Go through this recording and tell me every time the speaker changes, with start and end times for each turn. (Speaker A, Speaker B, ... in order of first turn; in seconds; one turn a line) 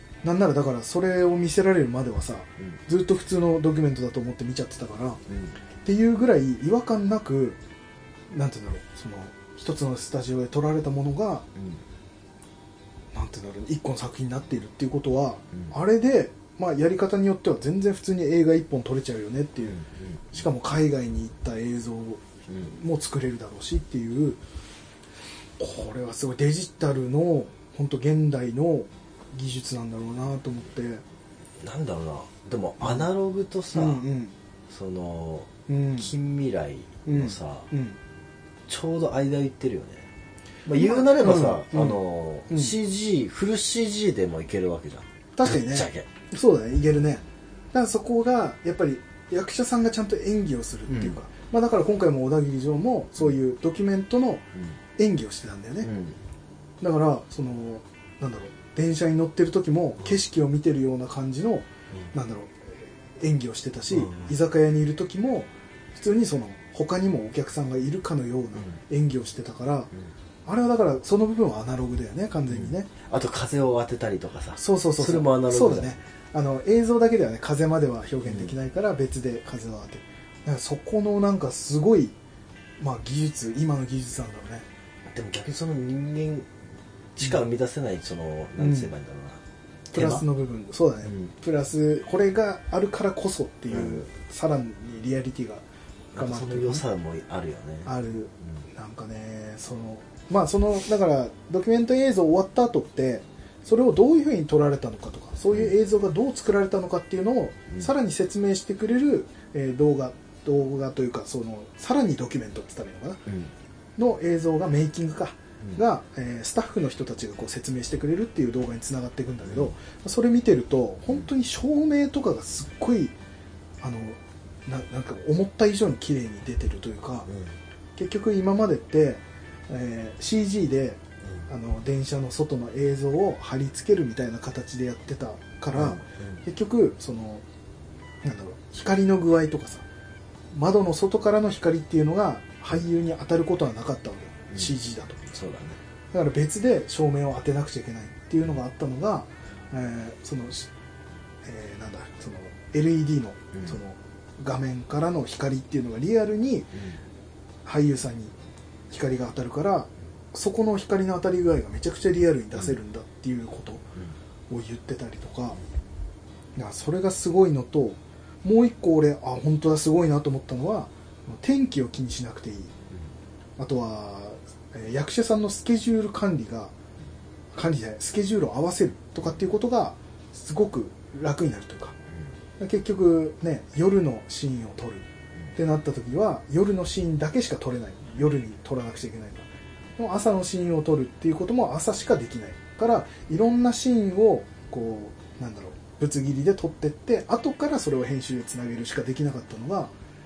Speaker A: 0.2-5.2
Speaker B: 5.3-5.6
Speaker A: 5.8-7.6
Speaker A: 8.3-11.5
Speaker B: 11.6-11.8
Speaker A: 13.1-19.8
Speaker B: 19.7-20.2
Speaker A: 20.3-24.4
Speaker A: 25.6-31.0
Speaker B: 31.6-34.0
Speaker A: 32.8-33.1
Speaker A: 33.7-34.3
Speaker B: 34.7-37.7
Speaker A: 35.7-36.1
Speaker A: 37.1-38.0
Speaker B: 38.7-40.1
Speaker B: 40.7-46.1
Speaker A: 40.8-42.8
Speaker A: 45.4-55.9
Speaker B: 50.9-51.2
Speaker B: 55.8-56.2
Speaker A: 56.8-69.9
Speaker B: 63.9-64.3
Speaker A: 70.5-72.9
Speaker B: 72.5-76.0
Speaker A: 74.6-82.2
Speaker B: 78.3-78.5
Speaker A: 82.8-84.7
Speaker B: 85.1-86.5
Speaker B: 87.2-90.2
Speaker A: 88.6-88.9
Speaker A: 89.9-95.7
Speaker B: 93.7-94.0
Speaker B: 96.1-97.9
Speaker A: 96.2-96.8
Speaker A: 97.8-113.3
Speaker B: 113.3-113.5
Speaker A: 114.0-123.2
Speaker B: 119.5-119.7
Speaker A: 123.8-127.3
Speaker B: 127.3-127.5
Speaker A: 128.0-137.4
Speaker B: 135.7-136.4
Speaker A: 138.2-139.9
Speaker A: 140.5-145.2
Speaker B: 145.3-145.8
Speaker A: 146.1-150.7
Speaker A: 151.4-156.8
Speaker A: 157.7-158.3
Speaker A: 158.9-163.8
Speaker A: 164.5-165.6
Speaker A: 166.6-172.7
Speaker A: 173.6-176.7
Speaker A: 177.5-182.0
Speaker A: 182.6-199.9